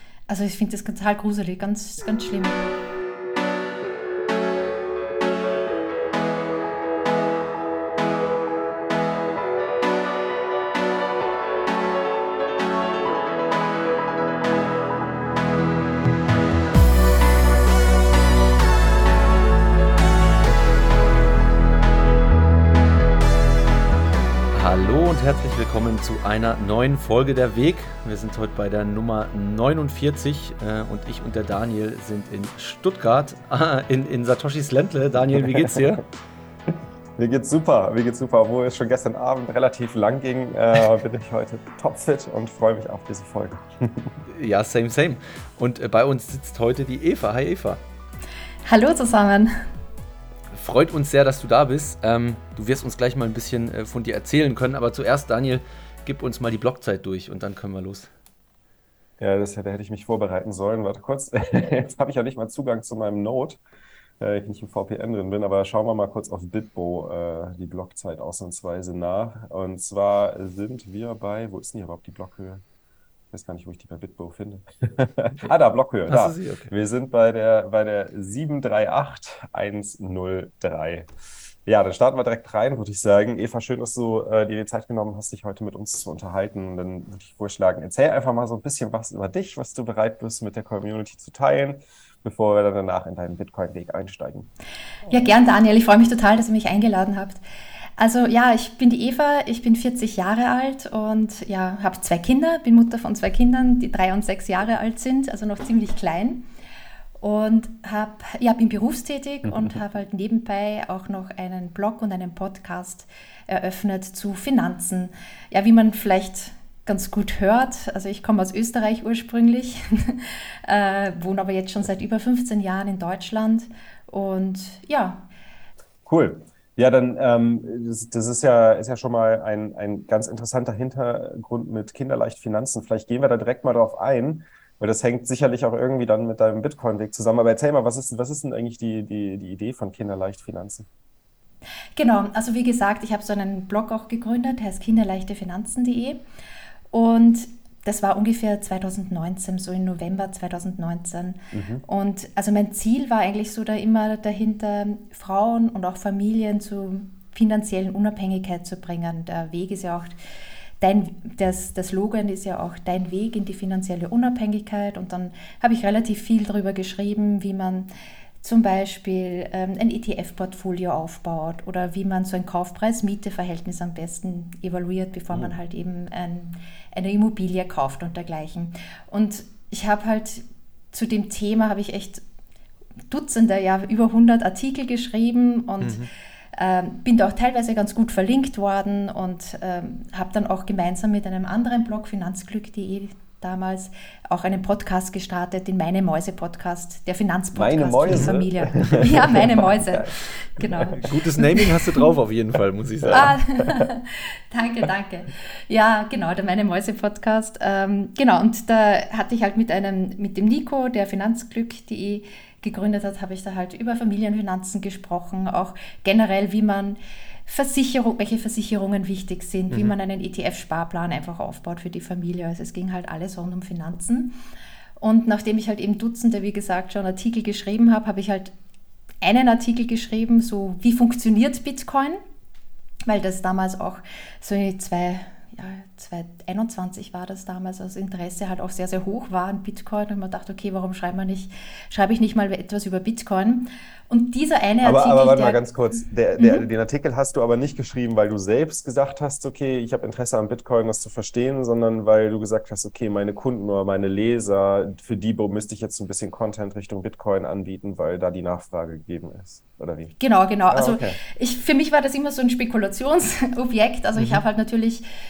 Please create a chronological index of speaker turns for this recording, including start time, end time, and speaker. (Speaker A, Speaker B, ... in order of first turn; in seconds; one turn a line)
Speaker A: 0.3-2.7
Speaker B: 24.5-36.0
Speaker C: 35.2-36.0
Speaker C: 37.2-44.2
Speaker B: 44.3-47.8
Speaker A: 48.7-49.5
Speaker B: 50.5-58.1
Speaker C: 59.2-63.6
Speaker C: 64.2-72.6
Speaker C: 73.3-81.1
Speaker B: 76.1-76.7
Speaker C: 81.7-94.5
Speaker A: 95.1-97.4
Speaker A: 98.0-106.4
Speaker A: 107.2-125.3
Speaker C: 109.5-109.8
Speaker C: 126.1-140.9
Speaker A: 142.0-146.2
Speaker A: 146.9-160.1
Speaker C: 151.5-151.8
Speaker A: 160.8-167.9
Speaker A: 168.4-182.2
Speaker A: 183.1-202.1
Speaker B: 185.8-186.1
Speaker C: 197.6-200.9
Speaker B: 198.1-199.1
Speaker B: 201.0-203.3
Speaker C: 203.0-203.9
Speaker A: 203.1-224.3
Speaker A: 225.0-228.5
Speaker A: 229.2-232.2
Speaker A: 233.1-245.6
Speaker C: 244.8-260.2
Speaker A: 246.4-246.7
Speaker A: 260.2-265.0
Speaker C: 260.7-261.2
Speaker B: 264.2-264.4